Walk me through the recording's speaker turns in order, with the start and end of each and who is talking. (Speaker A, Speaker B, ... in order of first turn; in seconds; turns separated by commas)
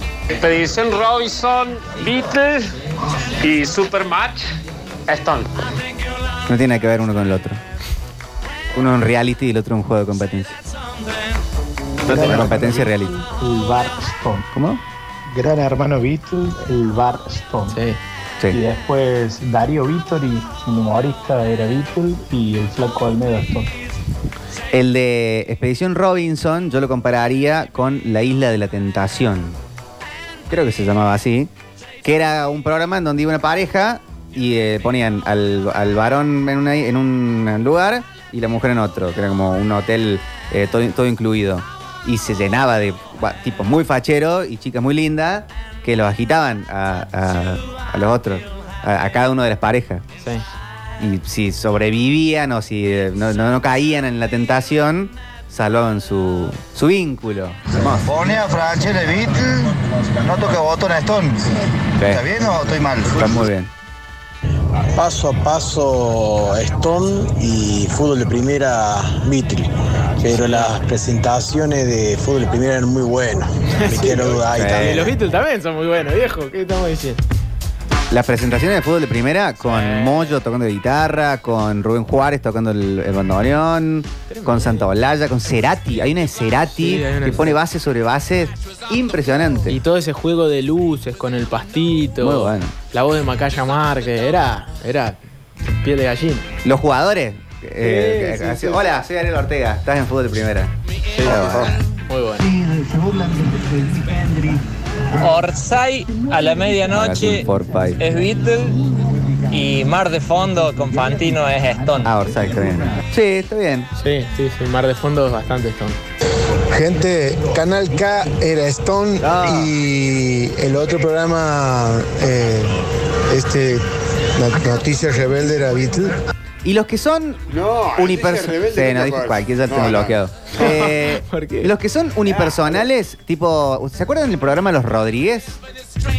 Speaker A: 0.3-2.6, Speaker A: 3.4-4.5, Speaker A: 5.1-5.5, Speaker B: 6.5-7.6, Speaker B: 8.7-10.6, Speaker B: 12.0-13.2, Speaker C: 12.1-12.7, Speaker D: 12.1-12.8, Speaker D: 13.6-14.3, Speaker B: 14.5-14.8, Speaker D: 15.4-15.7, Speaker C: 15.4-17.8, Speaker D: 16.6-17.2, Speaker E: 17.7-18.0, Speaker C: 18.5-23.7, Speaker D: 21.9-22.4, Speaker B: 24.7-29.6, Speaker B: 30.5-31.5, Speaker B: 32.0-50.0, Speaker B: 51.0-58.0, Speaker F: 57.8-63.3, Speaker B: 62.0-62.2, Speaker B: 63.1-63.7, Speaker D: 64.9-75.1, Speaker E: 70.3-70.7, Speaker E: 73.7-77.2, Speaker B: 74.5-75.1, Speaker B: 78.1-89.8, Speaker E: 79.6-80.3, Speaker E: 84.3-84.9, Speaker E: 86.7-87.6, Speaker E: 89.7-96.5, Speaker B: 92.2-92.7, Speaker B: 96.6-101.7, Speaker E: 97.8-98.8, Speaker E: 101.1-102.5, Speaker F: 102.5-104.5, Speaker G: 105.2-107.5, Speaker B: 106.9-108.0, Speaker G: 108.0-108.8, Speaker G: 109.5-112.1, Speaker B: 112.0-113.9, Speaker E: 114.0-116.0, Speaker D: 116.7-123.8, Speaker B: 119.2-119.7, Speaker D: 124.3-126.2, Speaker B: 126.6-127.4, Speaker H: 127.5-130.2, Speaker B: 128.0-135.6, Speaker E: 130.6-131.7, Speaker H: 132.3-132.7